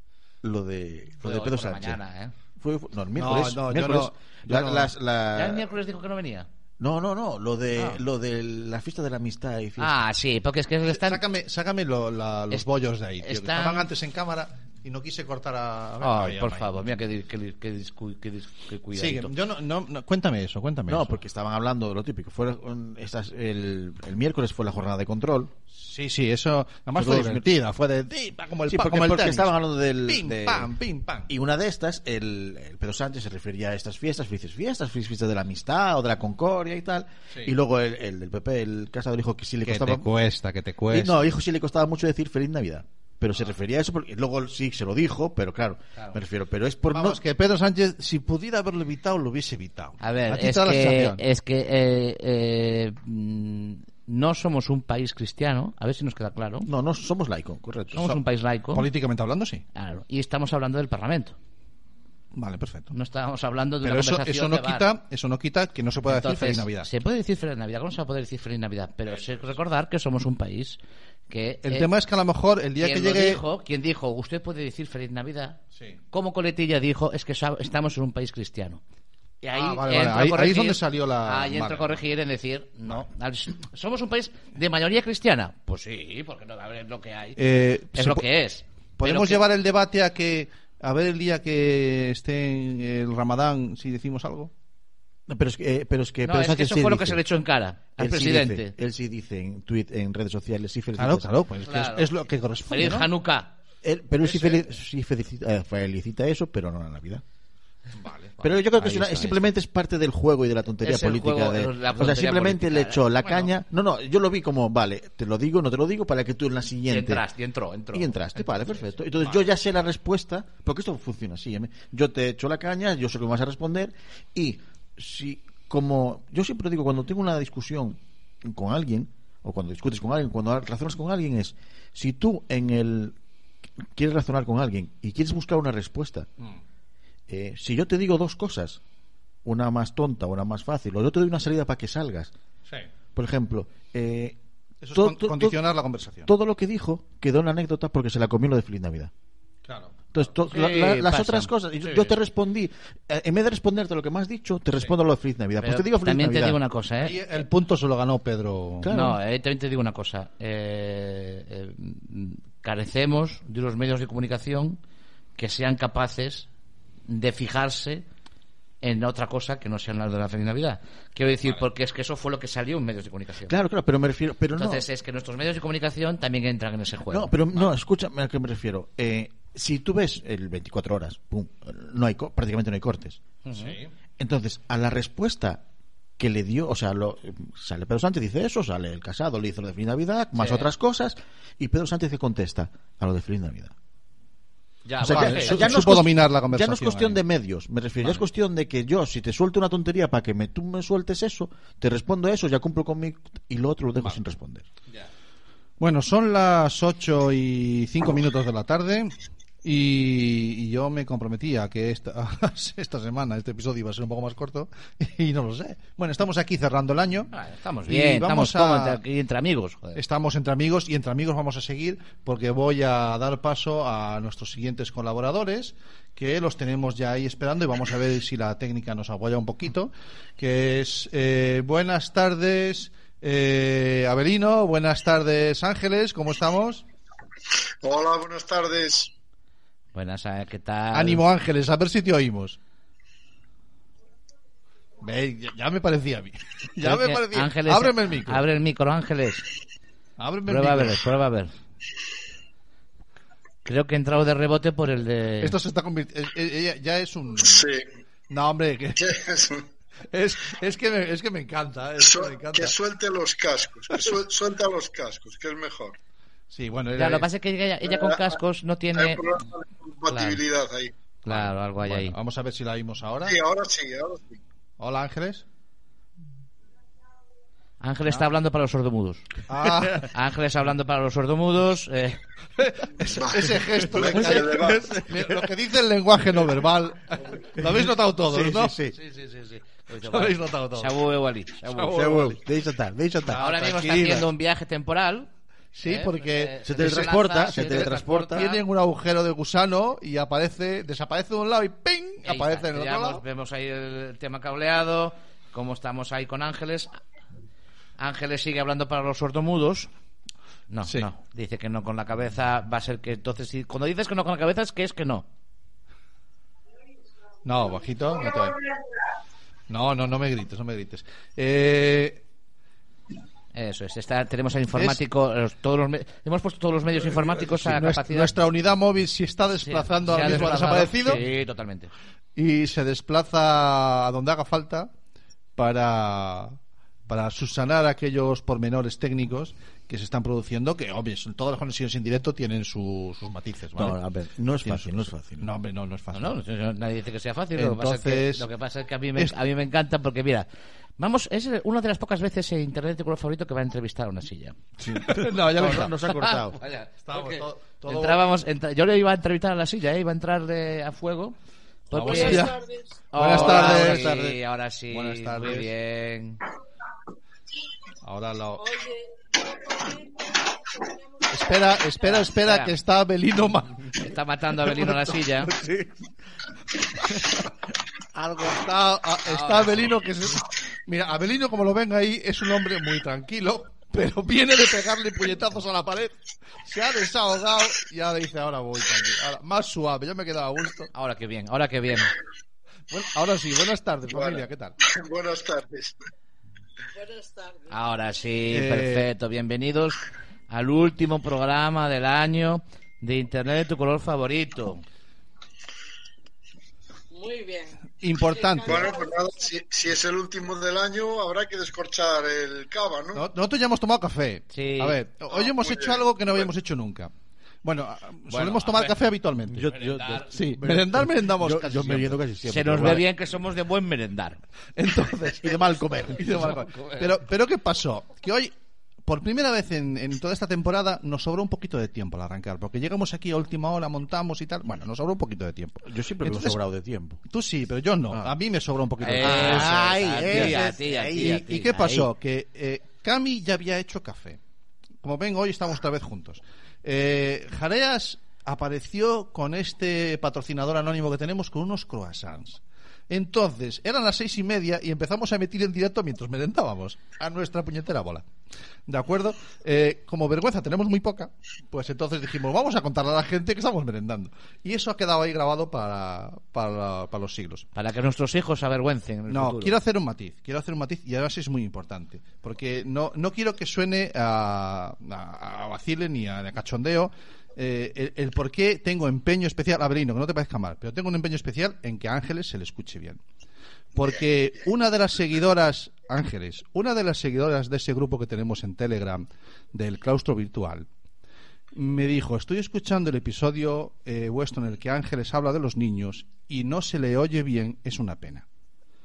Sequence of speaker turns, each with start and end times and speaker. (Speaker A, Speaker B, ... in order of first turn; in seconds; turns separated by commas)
Speaker A: 0.4-2.0, Speaker B: 1.2-2.3, Speaker A: 2.6-5.7, Speaker C: 3.2-4.9, Speaker B: 5.3-6.5, Speaker A: 6.8-10.0, Speaker B: 9.8-11.2, Speaker C: 10.9-16.8, Speaker B: 13.2-13.9, Speaker B: 16.0-19.3, Speaker C: 18.9-21.2, Speaker A: 20.9-25.5, Speaker C: 25.7-29.5, Speaker A: 27.0-27.5, Speaker A: 28.7-30.7, Speaker C: 30.1-31.3, Speaker A: 31.3-40.1, Speaker C: 39.6-41.1, Speaker A: 40.9-47.2, Speaker C: 46.9-51.2, Speaker B: 50.0-56.7, Speaker A: 56.7-58.2, Speaker B: 57.9-58.9, Speaker C: 58.7-59.6, Speaker B: 59.8-61.4, Speaker C: 62.3-62.9, Speaker B: 62.9-64.9, Speaker C: 63.8-66.9, Speaker B: 66.1-70.8, Speaker B: 71.3-71.9, Speaker C: 71.7-73.4, Speaker B: 72.8-75.6, Speaker B: 76.1-78.8, Speaker B: 79.4-87.4, Speaker C: 79.5-82.0, Speaker C: 87.4-88.2, Speaker B: 88.0-89.4, Speaker C: 89.0-94.5, Speaker A: 95.3-97.2, Speaker B: 96.2-98.7, Speaker A: 98.0-101.3, Speaker C: 101.0-103.1, Speaker B: 101.7-103.5, Speaker A: 103.8-107.2, Speaker C: 104.2-104.6, Speaker C: 107.9-108.5, Speaker A: 108.4-117.2, Speaker B: 108.4-109.5, Speaker B: 110.8-113.1, Speaker C: 113.2-113.5, Speaker B: 116.9-118.8, Speaker A: 117.9-133.2, Speaker A: 133.8-136.3, Speaker A: 137.3-138.8, Speaker A: 139.4-142.3, Speaker A: 143.1-144.4, Speaker C: 144.8-146.3, Speaker A: 144.9-145.6, Speaker A: 146.3-149.1, Speaker C: 149.7-150.2, Speaker A: 150.1-156.6, Speaker B: 150.4-151.5, Speaker C: 151.8-152.1, Speaker B: 155.6-157.5, Speaker C: 157.0-158.9, Speaker A: 158.8-159.2, Speaker B: 158.9-164.8, Speaker B: 165.4-166.5, Speaker B: 167.1-168.1, Speaker B: 168.8-173.5, Speaker A: 173.5-174.8, Speaker B: 174.6-177.7, Speaker A: 177.1-183.2, Speaker B: 183.5-183.8, Speaker C: 183.5-183.9, Speaker A: 184.2-185.6, Speaker A: 186.2-193.8, Speaker B: 190.4-190.7, Speaker B: 194.8-195.8, Speaker A: 195.0-204.7, Speaker C: 195.1-197.2, Speaker C: 205.8-217.3, Speaker B: 217.3-220.0, Speaker C: 217.9-219.0, Speaker C: 219.9-236.8, Speaker D: 237.8-239.1, Speaker B: 239.9-241.2, Speaker C: 240.9-242.6, Speaker C: 245.0-248.4, Speaker B: 246.8-249.5, Speaker C: 250.2-251.1, Speaker B: 250.5-251.5, Speaker B: 253.7-255.5, Speaker C: 255.4-257.7, Speaker D: 257.4-257.9, Speaker C: 258.3-259.1, Speaker D: 259.0-259.7, Speaker C: 260.1-262.7, Speaker D: 262.0-266.0, Speaker C: 263.9-264.2, Speaker C: 266.5-267.3, Speaker B: 266.9-269.3, Speaker D: 267.9-268.2, Speaker D: 268.9-270.9, Speaker B: 270.1-270.4, Speaker C: 271.2-273.4, Speaker B: 271.3-272.2, Speaker D: 273.2-274.4, Speaker C: 274.8-275.4, Speaker B: 277.8-279.3, Speaker C: 279.5-280.1, Speaker B: 280.1-282.2, Speaker C: 282.6-288.8, Speaker D: 283.0-285.0, Speaker A: 287.6-289.0, Speaker B: 288.9-292.0, Speaker C: 290.0-291.0, Speaker C: 291.6-292.4, Speaker A: 291.9-293.6, Speaker C: 293.2-294.3, Speaker B: 293.3-295.3, Speaker C: 295.7-303.2, Speaker B: 295.8-298.6, Speaker A: 296.6-298.5, Speaker B: 302.2-307.0, Speaker B: 308.0-309.9, Speaker B: 310.7-315.3, Speaker C: 317.4-318.6, Speaker C: 319.7-322.2, Speaker B: 323.5-328.3, Speaker C: 324.7-325.0, Speaker C: 327.3-331.2, Speaker B: 329.6-331.9, Speaker C: 332.4-334.9, Speaker C: 335.6-336.6, Speaker C: 337.1-344.0, Speaker A: 343.8-345.5, Speaker C: 344.6-346.4, Speaker B: 346.1-350.5, Speaker C: 347.6-348.5, Speaker B: 351.0-354.6, Speaker A: 354.9-356.6, Speaker C: 354.9-356.0, Speaker B: 356.1-361.4, Speaker C: 357.0-358.2, Speaker B: 361.9-362.5, Speaker E: 361.9-363.7, Speaker C: 361.9-362.6, Speaker B: 363.1-366.4, Speaker C: 363.1-364.4, Speaker C: 364.9-365.7, Speaker C: 368.0-368.7, Speaker E: 368.6-372.2, Speaker C: 371.3-374.0, Speaker B: 372.0-372.7, Speaker B: 373.9-375.5, Speaker C: 374.6-375.9, Speaker C: 376.9-377.5, Speaker C: 378.1-390.9, Speaker B: 379.2-380.0, Speaker B: 390.9-392.1, Speaker C: 392.9-394.8, Speaker D: 394.1-396.0, Speaker E: 396.9-397.8, Speaker B: 397.7-404.8, Speaker C: 398.5-399.1, Speaker E: 407.1-409.5, Speaker C: 408.0-408.9, Speaker D: 408.7-413.2, Speaker C: 413.1-417.1, Speaker B: 414.5-415.0, Speaker D: 415.3-416.5, Speaker C: 417.6-419.7, Speaker B: 418.3-419.0, Speaker A: 419.5-423.1, Speaker B: 419.6-420.3, Speaker C: 420.3-422.2, Speaker B: 422.5-424.4, Speaker C: 422.7-423.0, Speaker C: 424.8-428.5, Speaker A: 425.4-426.5, Speaker B: 426.3-427.1, Speaker C: 429.1-436.6, Speaker A: 435.9-437.2, Speaker C: 437.3-444.4, Speaker B: 439.0-442.1, Speaker A: 439.2-441.4, Speaker C: 445.0-458.2, Speaker C: 458.9-467.7, Speaker B: 467.8-469.8, Speaker C: 469.3-483.2, Speaker C: 483.9-490.9, Speaker C: 491.7-498.5